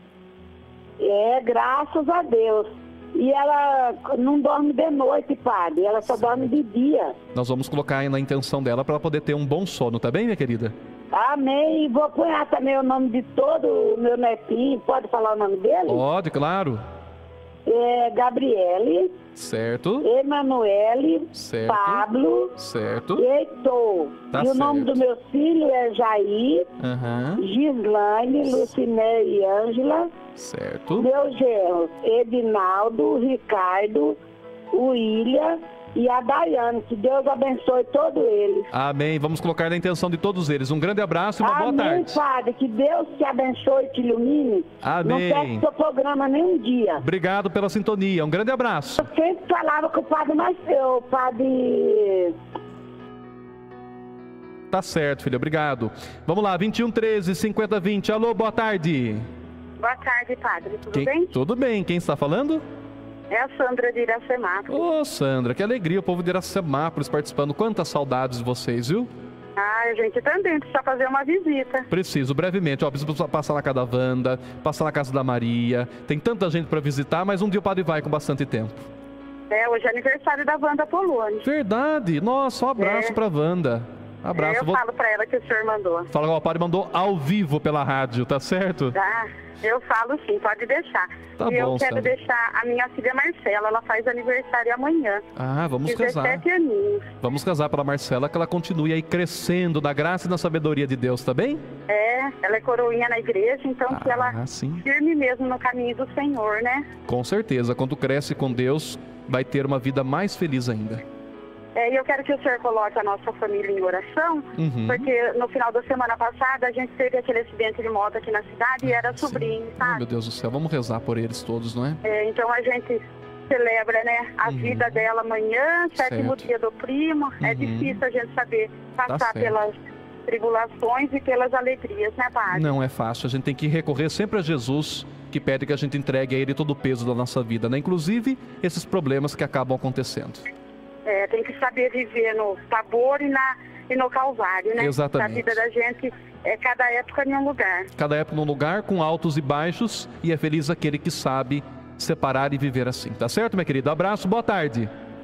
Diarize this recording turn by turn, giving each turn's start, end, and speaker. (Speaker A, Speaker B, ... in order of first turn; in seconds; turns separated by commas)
Speaker A: 1.0-7.2, Speaker B: 7.3-10.7, Speaker A: 11.1-16.0, Speaker B: 15.9-16.8, Speaker A: 17.6-19.1, Speaker B: 19.3-20.1, Speaker A: 20.0-22.5, Speaker B: 21.3-23.2, Speaker A: 23.1-26.7, Speaker B: 24.3-25.0, Speaker B: 26.8-27.4, Speaker A: 27.4-30.1, Speaker B: 30.4-31.1, Speaker A: 31.0-34.2, Speaker A: 34.7-38.7, Speaker B: 38.7-42.2, Speaker A: 41.4-47.0, Speaker B: 44.8-45.6, Speaker B: 47.0-49.1, Speaker A: 49.0-52.3, Speaker B: 54.7-59.3, Speaker C: 59.8-61.3, Speaker B: 60.9-62.6, Speaker C: 63.3-64.8, Speaker B: 64.7-69.1, Speaker C: 69.6-71.9, Speaker B: 71.9-78.9, Speaker C: 79.5-81.4, Speaker B: 81.4-84.8, Speaker C: 82.8-83.1, Speaker C: 84.3-86.1, Speaker B: 86.1-89.0, Speaker C: 88.9-95.2, Speaker B: 91.4-92.1, Speaker B: 95.3-96.4, Speaker C: 95.8-97.1, Speaker B: 97.2-101.6, Speaker C: 101.9-106.8, Speaker B: 103.9-104.8, Speaker B: 107.1-111.0, Speaker C: 111.8-120.0, Speaker B: 114.6-115.1, Speaker B: 118.8-122.0, Speaker C: 122.0-129.7, Speaker B: 124.4-125.0, Speaker B: 126.0-126.5, Speaker B: 127.4-128.0, Speaker B: 129.1-129.5, Speaker C: 130.2-132.7, Speaker B: 132.5-140.4, Speaker C: 141.1-147.9, Speaker B: 144.8-145.5, Speaker B: 148.0-154.9